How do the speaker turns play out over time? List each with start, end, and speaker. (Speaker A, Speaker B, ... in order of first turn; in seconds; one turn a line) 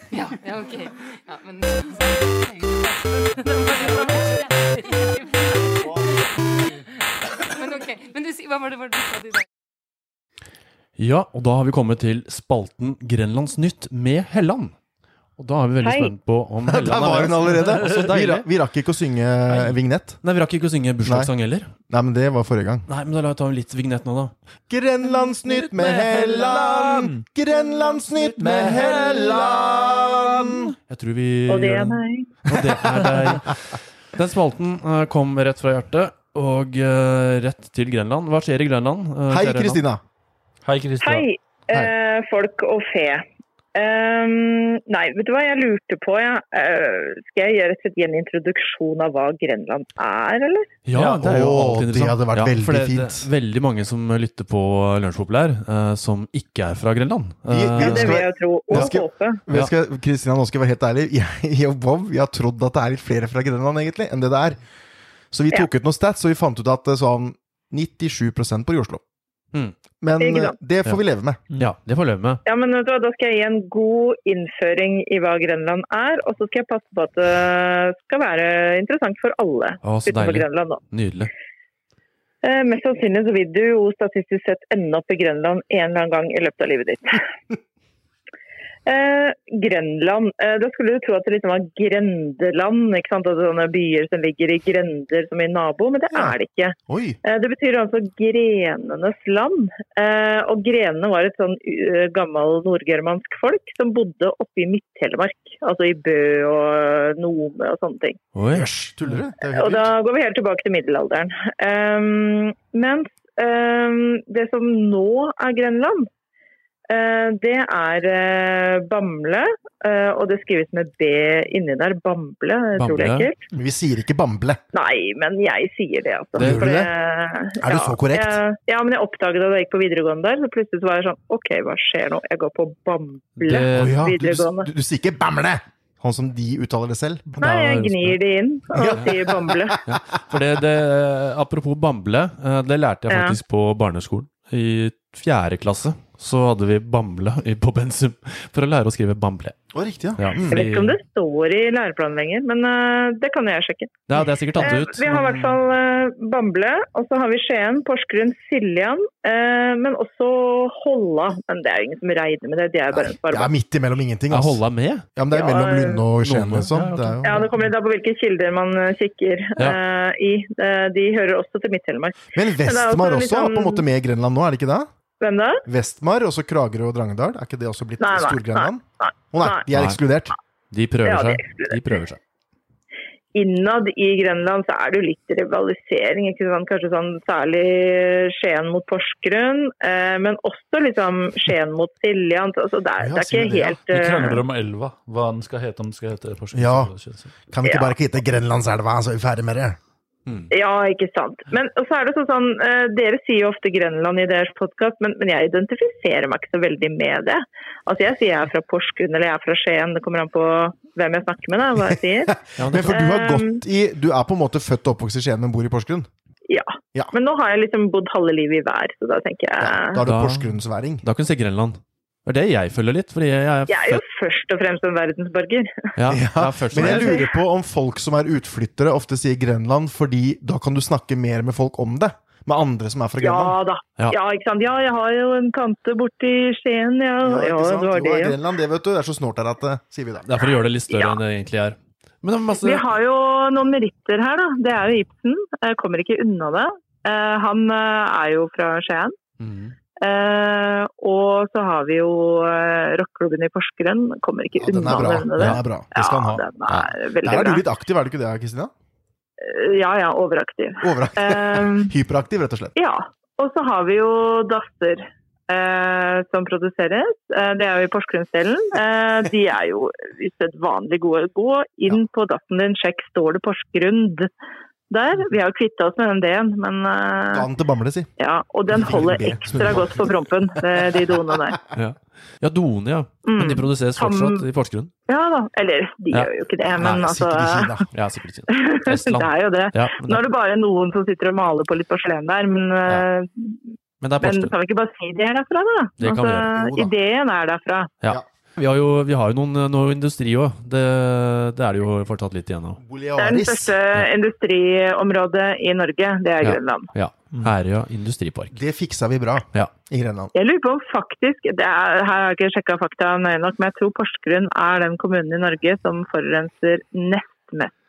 Speaker A: 0.1-9.4
Speaker B: 11.0-14.7
Speaker B: 15.4-18.5
Speaker C: 15.8-16.1
Speaker D: 16.7-20.2
Speaker B: 19.5-21.7
Speaker D: 21.0-21.3
Speaker D: 21.9-22.9
Speaker B: 22.9-24.3
Speaker D: 24.7-30.7
Speaker E: 25.4-27.2
Speaker E: 28.3-30.5
Speaker B: 30.9-39.8
Speaker C: 31.5-32.3
Speaker D: 39.3-40.0
Speaker E: 40.6-41.3
Speaker C: 41.0-50.7
Speaker B: 50.9-58.9
Speaker E: 50.9-51.2
Speaker D: 51.2-53.3
Speaker D: 57.5-64.6
Speaker C: 57.8-59.4
Speaker D: 65.3-69.0
Speaker D: 70.0-71.4
Speaker C: 70.2-70.5
Speaker B: 71.5-72.4
Speaker C: 72.5-80.8
Speaker B: 79.8-81.3
Speaker C: 82.4-87.3
Speaker C: 88.8-108.2
Speaker D: 96.9-97.2
Speaker B: 108.3-108.7
Speaker D: 108.5-109.9
Speaker C: 109.5-116.1
Speaker C: 116.9-123.4
Speaker B: 122.8-123.3
Speaker D: 123.5-124.6
Speaker C: 124.7-134.7
Speaker D: 126.3-126.9
Speaker B: 126.4-126.7
Speaker D: 127.6-128.4
Speaker B: 133.4-134.1
Speaker D: 133.7-137.5
Speaker B: 137.3-138.2
Speaker C: 137.4-139.8
Speaker D: 138.7-140.0
Speaker B: 139.8-149.6
Speaker C: 143.1-143.3
Speaker D: 149.7-150.6
Speaker B: 150.2-151.0
Speaker C: 150.5-154.0
Speaker B: 154.1-155.6
Speaker C: 154.6-163.5
Speaker D: 162.9-164.6
Speaker B: 164.3-165.1
Speaker D: 165.1-167.5
Speaker C: 165.3-166.0
Speaker B: 166.2-167.4
Speaker C: 167.2-173.8
Speaker D: 172.3-174.9
Speaker C: 175.2-175.6
Speaker D: 175.7-180.3
Speaker C: 178.0-179.6
Speaker B: 179.7-180.0
Speaker B: 180.7-182.2
Speaker C: 181.0-181.8
Speaker C: 183.3-194.4
Speaker D: 193.0-193.8
Speaker E: 193.8-197.3
Speaker D: 196.5-196.9
Speaker D: 197.5-199.8
Speaker C: 197.6-197.9
Speaker C: 200.5-212.3
Speaker D: 212.3-216.1
Speaker B: 212.6-213.0
Speaker C: 212.9-213.6
Speaker C: 216.5-220.0
Speaker D: 219.6-221.0
Speaker B: 220.0-224.0
Speaker C: 223.7-225.9
Speaker B: 225.9-227.2
Speaker D: 226.1-233.6
Speaker C: 226.7-227.4
Speaker C: 233.2-238.4
Speaker D: 237.2-240.3
Speaker B: 240.2-242.9
Speaker C: 240.9-241.2
Speaker C: 242.6-249.2
Speaker B: 249.4-249.7
Speaker C: 250.0-257.6
Speaker D: 254.6-258.7
Speaker C: 259.4-261.9
Speaker D: 260.8-262.7
Speaker C: 262.8-274.3
Speaker C: 274.9-277.5
Speaker D: 277.3-278.1
Speaker C: 278.2-281.6
Speaker D: 278.7-281.4
Speaker B: 281.7-284.9
Speaker C: 283.2-284.4
Speaker C: 285.1-287.7
Speaker B: 286.1-287.0
Speaker D: 286.8-287.9
Speaker B: 287.9-290.2
Speaker C: 288.5-297.9
Speaker B: 294.0-294.5
Speaker B: 296.0-296.6
Speaker D: 296.5-296.9
Speaker B: 298.0-302.8
Speaker D: 302.8-303.8
Speaker C: 303.2-306.9
Speaker B: 306.4-308.6
Speaker D: 308.5-310.3
Speaker C: 310.3-317.8